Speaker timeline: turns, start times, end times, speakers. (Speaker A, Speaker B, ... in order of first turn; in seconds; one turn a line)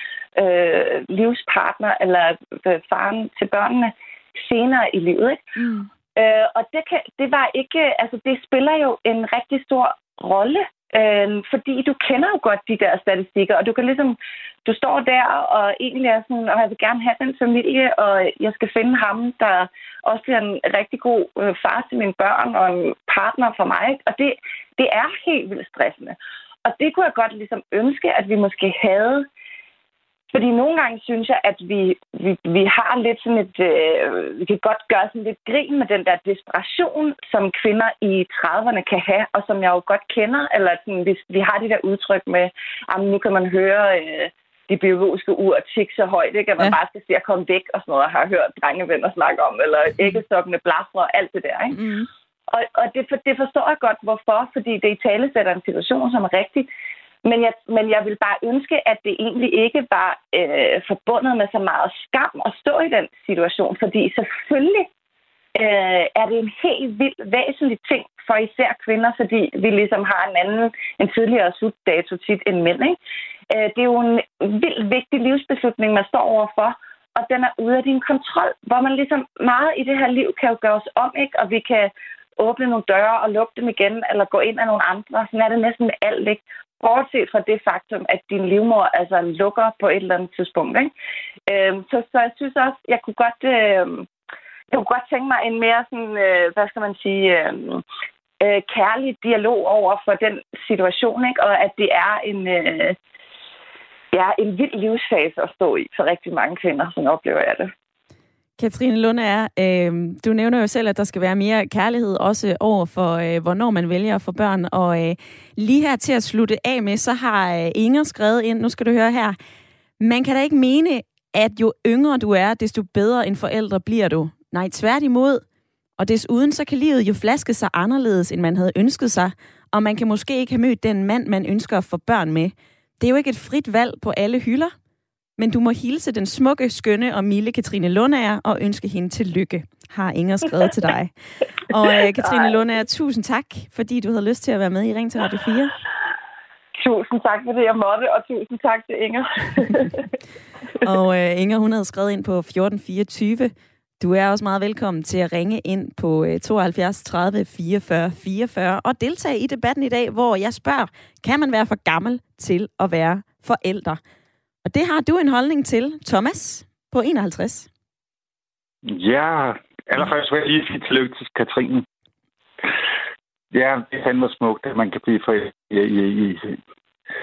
Speaker A: 0.3-5.4
Speaker B: 5.6-5.9
Speaker A: 6.2-29.3
Speaker A: 30.3-51.8
Speaker B: 51.7-52.1
Speaker A: 52.5-56.7
Speaker A: 57.2-64.9
Speaker A: 65.5-73.0
Speaker A: 73.5-90.9
Speaker A: 91.5-94.1
Speaker A: 94.7-97.8
Speaker A: 98.4-103.0
Speaker A: 104.1-107.7
Speaker B: 108.6-119.4
Speaker B: 120.0-125.4
Speaker B: 126.0-134.7
Speaker B: 135.4-141.1
Speaker B: 141.7-145.7
Speaker A: 146.8-150.0
Speaker B: 150.8-164.0
Speaker B: 164.6-167.7
Speaker C: 168.9-171.8
Speaker C: 173.5-176.6